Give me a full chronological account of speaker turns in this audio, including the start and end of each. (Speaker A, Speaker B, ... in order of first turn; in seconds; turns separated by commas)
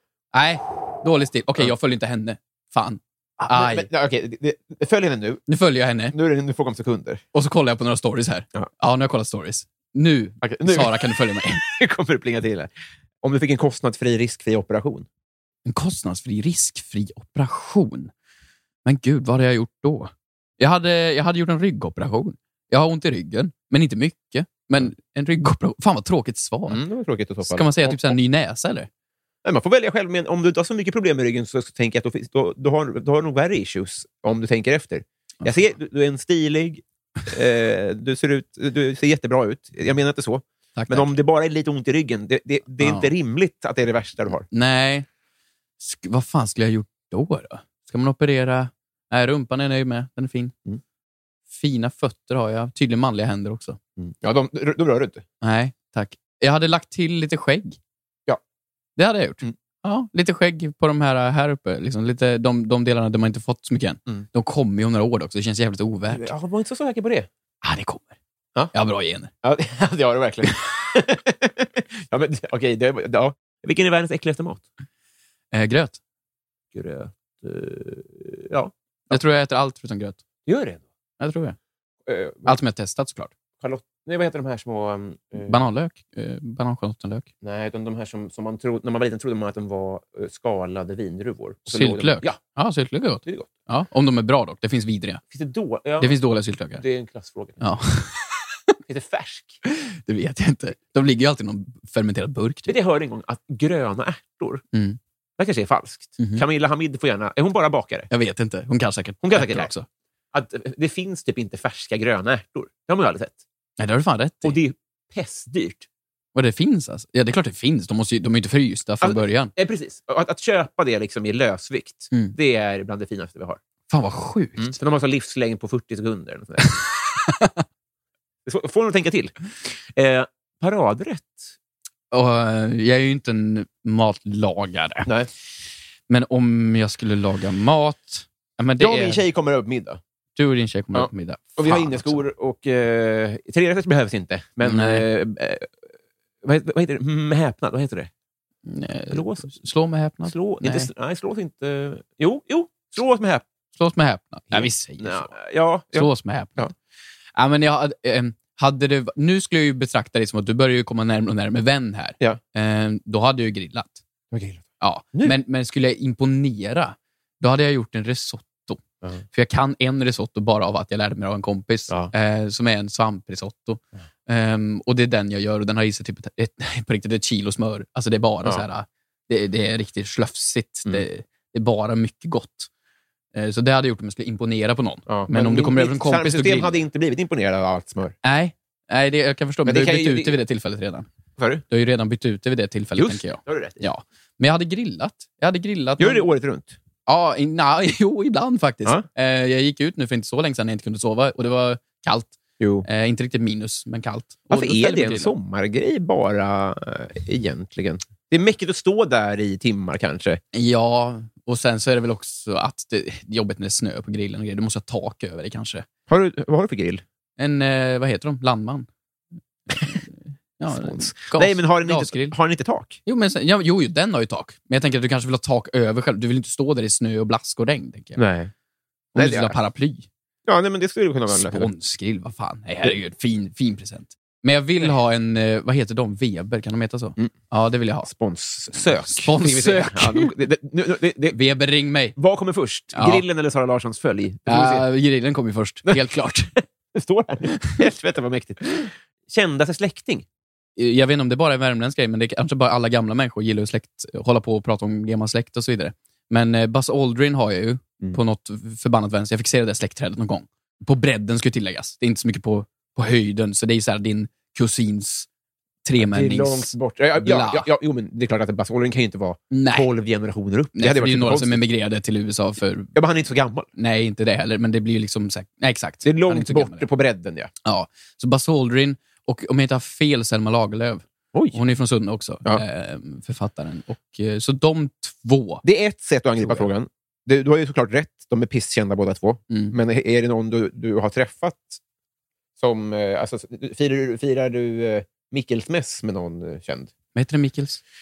Speaker A: 0.3-3.9, Speaker B: 3.4-5.5, Speaker A: 5.5-6.1, Speaker B: 6.1-7.2, Speaker A: 7.3-11.6, Speaker B: 10.4-11.1, Speaker B: 11.6-12.7, Speaker B: 13.2-15.1, Speaker A: 15.6-18.1, Speaker A: 18.8-26.8, Speaker B: 26.7-28.1, Speaker A: 27.4-28.9, Speaker B: 29.4-44.5, Speaker A: 40.8-41.1, Speaker A: 42.8-43.1, Speaker A: 44.5-45.1, Speaker A: 45.8-50.5, Speaker A: 51.5-53.8, Speaker B: 54.0-55.2, Speaker A: 55.4-57.8, Speaker A: 59.0-66.3, Speaker B: 66.1-67.3, Speaker A: 67.6-68.1, Speaker A: 68.7-69.3, Speaker B: 69.4-74.6, Speaker A: 75.5-76.0, Speaker B: 76.7-79.2, Speaker A: 79.1-80.2, Speaker B: 80.5-80.8, Speaker A: 81.2-81.5, Speaker B: 82.1-82.6, Speaker A: 82.4-83.3, Speaker B: 83.6-85.6, Speaker A: 85.4-87.3, Speaker B: 87.4-92.4, Speaker A: 91.7-95.2, Speaker B: 93.2-93.5, Speaker B: 95.3-96.2, Speaker A: 96.0-96.8, Speaker B: 96.8-97.6, Speaker A: 97.6-98.4, Speaker B: 98.9-99.6, Speaker A: 99.7-102.7, Speaker B: 102.7-104.6, Speaker A: 104.7-105.0, Speaker B: 105.4-108.1, Speaker A: 106.2-106.4, Speaker A: 108.1-109.9, Speaker B: 109.2-109.7, Speaker B: 110.3-113.4, Speaker A: 113.8-114.6, Speaker B: 114.4-115.9, Speaker A: 116.3-119.5, Speaker B: 119.0-123.6, Speaker A: 123.9-124.8, Speaker B: 124.6-126.8, Speaker A: 127.2-127.6, Speaker B: 128.4-131.5, Speaker A: 132.1-135.1, Speaker A: 136.1-139.2, Speaker B: 138.8-140.0, Speaker A: 140.3-142.2, Speaker B: 140.9-145.7, Speaker A: 144.6-145.0, Speaker B: 146.4-148.1, Speaker A: 148.7-150.9, Speaker B: 149.1-149.6, Speaker B: 150.2-153.4, Speaker A: 153.8-155.3, Speaker B: 154.5-156.7, Speaker A: 155.9-156.7, Speaker A: 157.3-164.0, Speaker B: 164.3-165.3, Speaker A: 164.8-182.7, Speaker A: 183.3-186.8, Speaker B: 185.1-188.1, Speaker A: 188.2-191.1, Speaker B: 189.7-190.4, Speaker B: 191.4-191.6, Speaker A: 191.7-196.3, Speaker B: 193.0-193.8, Speaker B: 196.0-196.8, Speaker A: 197.1-202.3, Speaker B: 202.6-202.8, Speaker A: 202.8-205.3, Speaker B: 204.5-210.4, Speaker A: 210.5-215.8, Speaker B: 216.1-217.0, Speaker A: 217.4-218.9, Speaker A: 219.8-222.3, Speaker B: 220.7-223.0, Speaker A: 223.1-228.2, Speaker B: 228.2-228.5, Speaker A: 229.1-230.1, Speaker B: 229.2-229.6, Speaker B: 230.5-231.7, Speaker A: 231.3-238.1, Speaker B: 238.1-241.4, Speaker A: 238.8-240.3, Speaker A: 241.3-242.2, Speaker B: 242.2-244.8, Speaker A: 242.9-243.2, Speaker A: 244.5-246.5, Speaker B: 246.9-250.2, Speaker A: 250.8-265.3, Speaker A: 265.8-267.7, Speaker B: 266.0-271.6, Speaker A: 269.5-269.9, Speaker A: 270.7-272.9, Speaker B: 272.9-273.7, Speaker A: 273.8-276.9, Speaker B: 276.0-277.5, Speaker A: 277.6-285.6, Speaker B: 281.3-281.6, Speaker B: 285.6-291.8, Speaker A: 286.4-286.7, Speaker A: 289.5-289.7, Speaker B: 292.6-296.9, Speaker A: 297.1-297.8